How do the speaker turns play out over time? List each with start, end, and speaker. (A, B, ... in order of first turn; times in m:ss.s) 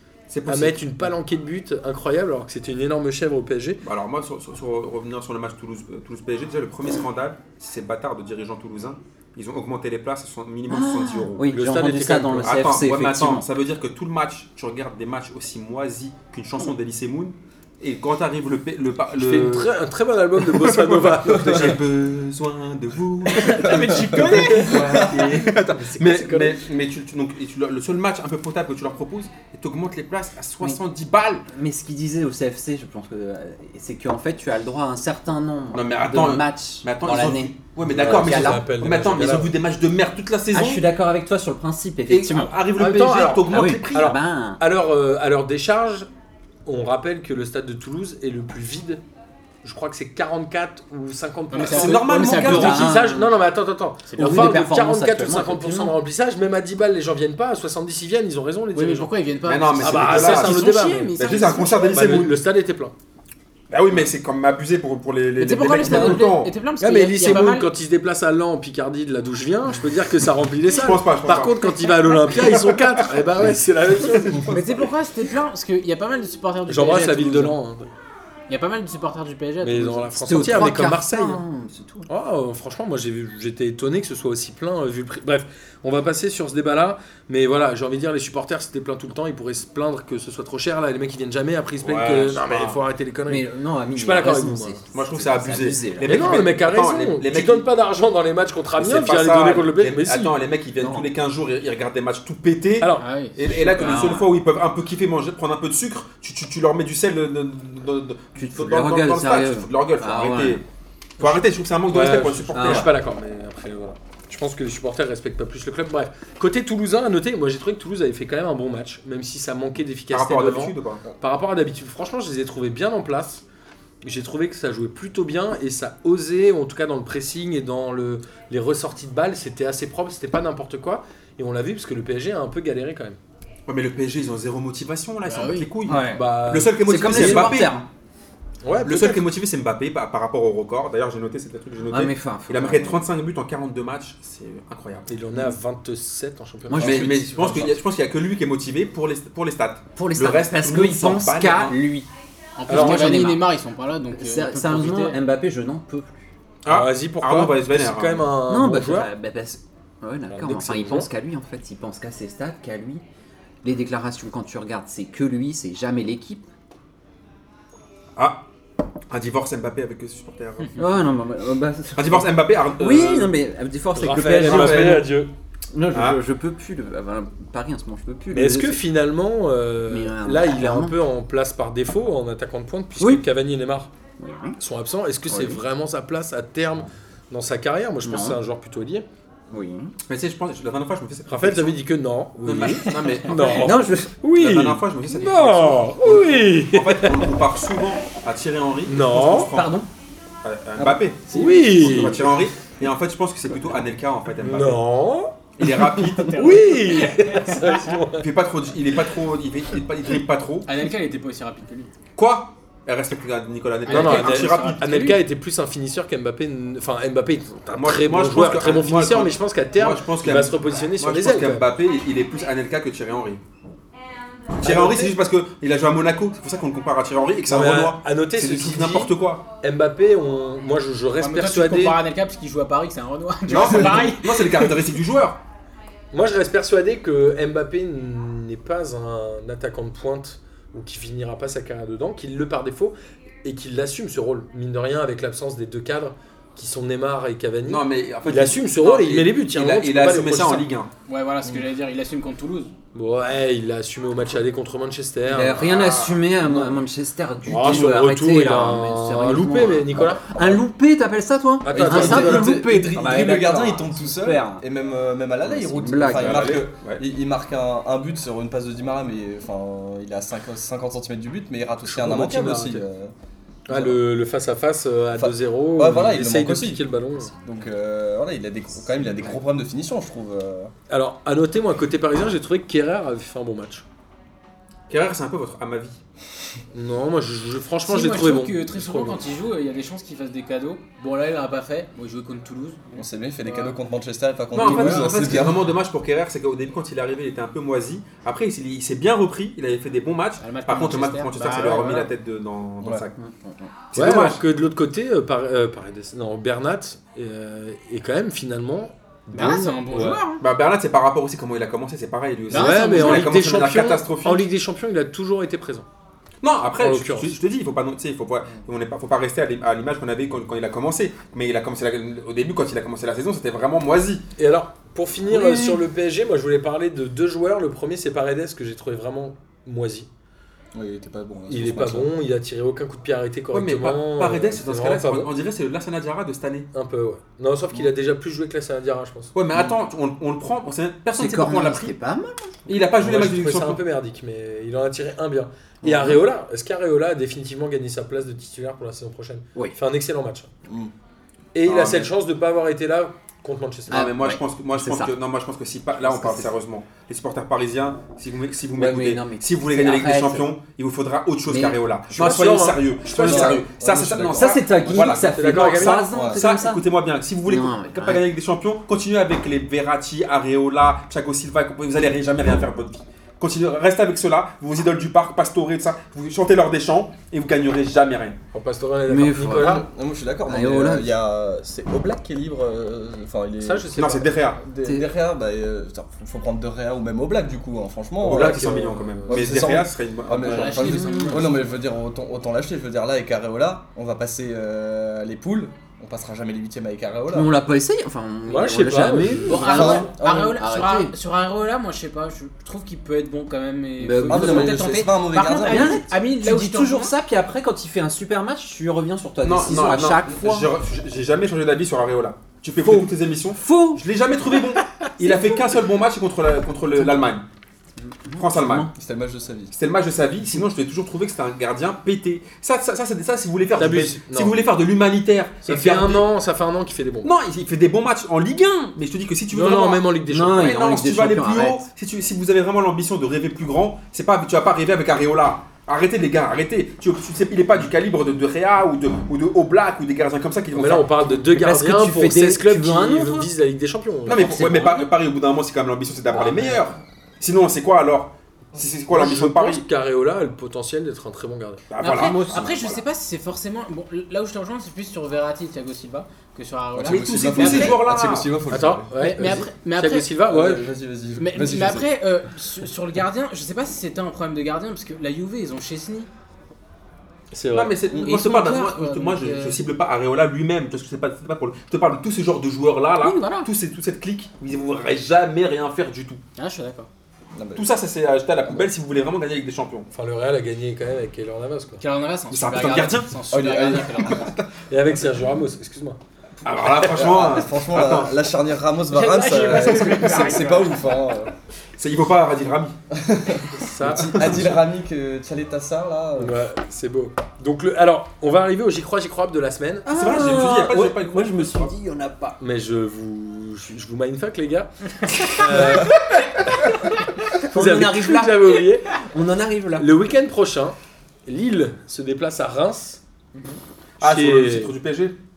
0:00.3-0:01.1 A
0:00.5-0:03.8 B
0:03.8-0:11.4 A
0:10.7-0:13.5 C
0:11.5-0:12.7 B
0:12.4-0:19.7 A
0:19.1-0:21.8 B
0:20.4-0:31.4 A
0:23.3-0:25.1 D
0:23.6-0:24.4 E
0:24.3-0:26.6 B
0:31.5-0:39.2 C
0:35.7-0:40.9 A
0:38.0-0:39.6 B
0:40.5-0:42.6 C
0:42.1-0:44.1 A
0:42.8-0:46.1 B
0:43.5-0:44.6 C
0:46.7-0:49.0 B
0:49.6-0:59.1 B
0:51.5-0:53.0 D
0:51.6-0:52.9 A
0:52.5-0:53.3 C
0:54.1-0:54.6 D
0:54.2-0:55.9 C
0:58.7-1:02.2 D
0:59.4-1:00.6 A
0:59.8-1:01.2 B
1:01.2-1:02.4 A
1:01.9-1:02.9 B
1:03.7-1:06.5 A
1:05.4-1:07.7 D
1:05.8-1:06.2 C
1:06.8-1:14.4 B
1:10.7-1:13.1 A
1:14.0-1:14.9 A
1:14.5-1:17.6 D
1:16.7-1:18.0 B
1:18.5-1:20.2 D
1:19.6-1:21.4 B
1:20.2-1:22.1 C
1:22.1-1:34.8 B
1:31.8-1:32.8 A
1:33.3-1:36.4 C
1:34.9-1:37.7 A
1:36.0-1:40.4 B
1:38.8-1:50.6 A
1:40.8-1:41.1 C
1:42.8-1:43.1 B
1:43.0-1:44.1 D
1:43.8-1:44.3 C
1:48.4-1:50.6 C
1:51.2-1:52.9 A
1:51.2-2:03.4 B
1:52.5-1:52.9 C
2:00.1-2:01.0 A
2:04.0-2:13.2 B
2:13.7-2:17.8 A
2:15.2-2:15.7 D
2:15.8-2:16.3 C
2:16.1-2:17.5 B
2:16.8-2:17.9 C
2:18.6-2:19.3 B
2:18.8-2:25.1 A
2:21.9-2:23.1 C
2:25.1-2:27.6 B
2:26.7-2:27.8 C
2:26.8-2:31.8 A
2:30.0-2:32.1 C
2:32.6-2:35.2 D
2:32.7-2:33.3 B
2:32.7-2:33.5 C
2:34.1-2:36.3 C
2:36.6-2:38.3 A
2:36.7-2:39.1 B
2:38.5-2:43.0 C
2:40.3-2:41.1 B
2:43.6-2:46.4 C
2:48.2-2:48.5 A
2:49.1-2:51.1 A
2:50.8-2:55.0 C
2:52.0-2:53.4 A
2:53.9-2:55.3 B
2:54.2-2:55.1 A
2:55.7-2:58.8 C
2:55.9-2:56.2 A
2:58.3-3:03.9 B
2:59.9-3:01.0 C
3:03.0-3:03.2 C
3:04.2-3:04.6 C
3:04.6-3:09.1 B
3:05.3-3:05.6 C
3:08.0-3:08.4 C
3:09.5-3:09.9 C
3:10.1-3:11.8 A
3:11.3-3:17.3 B
3:12.4-3:19.8 A
3:13.3-3:13.6 D
3:13.5-3:14.1 C
3:18.9-3:19.5 B
3:19.5-3:19.9 C
3:20.4-3:24.8 A
3:20.8-3:21.6 C
3:21.3-3:22.3 B
3:24.4-3:28.3 B
3:25.6-3:26.4 A
3:26.1-3:27.9 D
3:28.2-3:30.7 A
3:30.7-3:31.9 D
3:32.2-3:34.8 A
3:33.9-3:35.2 D
3:33.9-3:41.7 B
3:37.7-3:43.4 A
3:44.6-3:45.1 B
3:44.6-3:49.4 A
3:47.5-3:52.0 B
3:51.2-3:54.8 D
3:53.5-3:55.4 A
3:56.1-4:10.7 B
4:07.7-4:10.9 A
4:11.1-4:12.7 D
4:12.9-4:15.8 B
4:15.3-4:24.6 C
4:15.6-4:16.3 A
4:17.5-4:20.3 B
4:20.3-4:20.7 E
4:21.6-4:22.6 B
4:21.7-4:33.1 E
4:25.4-4:26.6 C
4:26.1-4:27.0 A
4:31.8-4:32.8 B
4:33.7-4:34.0 E
4:33.7-4:37.3 B
4:35.2-4:40.7 E
4:40.9-4:43.8 B
4:44.9-4:46.0 A
4:46.7-4:49.3 B
4:47.9-4:53.8 D
4:52.9-4:55.7 E
4:54.5-5:03.2 A
4:54.6-4:55.3 D
5:00.4-5:02.1 D
5:03.2-5:03.7 C
5:03.9-5:04.4 A
5:03.9-5:10.2 B
5:09.3-5:10.4 D
5:10.4-5:14.5 A
5:12.5-5:13.4 D
5:12.5-5:15.9 B
5:16.4-5:24.2 A
5:16.8-5:17.4 B
5:24.4-5:30.1 B
5:25.3-5:25.8 C
5:30.7-5:32.1 E
5:31.5-5:35.3 B
5:33.5-5:36.7 A
5:36.7-5:39.3 B
5:39.4-5:41.9 A
5:41.2-5:42.6 C
5:42.7-5:43.8 A
5:43.0-5:50.5 B
5:45.8-5:46.2 C
5:50.7-5:50.9 E
5:51.5-5:54.1 B
5:51.7-5:52.1 A
5:53.9-5:55.2 C
5:53.9-6:18.4 A
5:56.0-5:56.5 C
5:58.8-6:00.5 C
6:01.5-6:02.5 C
6:02.1-6:02.8 B
6:03.0-6:05.1 E
6:03.1-6:03.6 C
6:04.3-6:06.8 C
6:04.9-6:06.1 B
6:06.1-6:06.4 E
6:07.5-6:08.2 C
6:18.5-6:19.8 B
6:19.1-6:19.8 C
6:19.5-6:37.6 E
6:20.5-6:21.1 C
6:23.6-6:24.3 B
6:23.9-6:24.6 A
6:28.2-6:29.7 B
6:28.2-6:31.0 A
6:30.4-6:31.6 D
6:31.1-6:31.4 C
6:37.3-6:41.2 C
6:38.5-6:40.0 B
6:39.4-6:40.6 E
6:39.5-6:47.1 D
6:44.0-6:50.7 C
6:44.2-6:46.1 E
6:49.4-6:57.4 A
6:53.6-6:54.0 C
6:55.2-6:55.6 C
6:57.0-6:57.3 C
6:58.0-6:58.9 C
6:58.4-6:58.9 A
6:59.0-6:59.7 E
6:59.7-7:06.3 A
7:03.8-7:04.6 B
7:05.7-7:07.3 B
7:07.2-7:21.3 A
7:09.5-7:10.8 B
7:10.3-7:11.8 C
7:20.7-7:25.1 B
7:21.4-7:23.5 C
7:24.3-7:29.8 A
7:24.3-7:24.7 C
7:26.4-7:26.7 C
7:29.1-7:31.8 B
7:31.9-7:33.0 A
7:32.0-7:38.0 D
7:37.0-7:39.6 E
7:37.0-7:38.6 A
7:38.7-7:40.8 B
7:39.2-7:40.3 D
7:40.5-7:42.1 E
7:41.4-7:46.3 D
7:47.5-7:48.0 B
7:47.7-7:56.4 A
7:48.1-7:49.8 D
7:53.2-7:53.7 D
7:56.6-7:57.1 D
7:57.6-7:57.9 E
7:57.8-8:00.1 A
8:00.1-8:02.0 B
8:02.0-8:04.6 D
8:02.5-8:03.3 A
8:03.5-8:04.4 E
8:04.9-8:07.0 B
8:06.6-8:08.4 A
8:07.0-8:11.5 E
8:09.1-8:11.0 D
8:09.6-8:10.6 A
8:12.0-8:14.8 A
8:13.3-8:16.6 E
8:13.8-8:14.7 B
8:16.4-8:20.1 B
8:20.0-8:22.6 C
8:20.1-8:21.9 A
8:22.6-8:26.2 B
8:25.6-8:26.1 C
8:27.5-8:30.1 C
8:27.7-8:29.2 B
8:30.0-8:33.2 B
8:33.5-8:33.8 C
8:34.2-8:35.4 A
8:34.2-8:34.9 B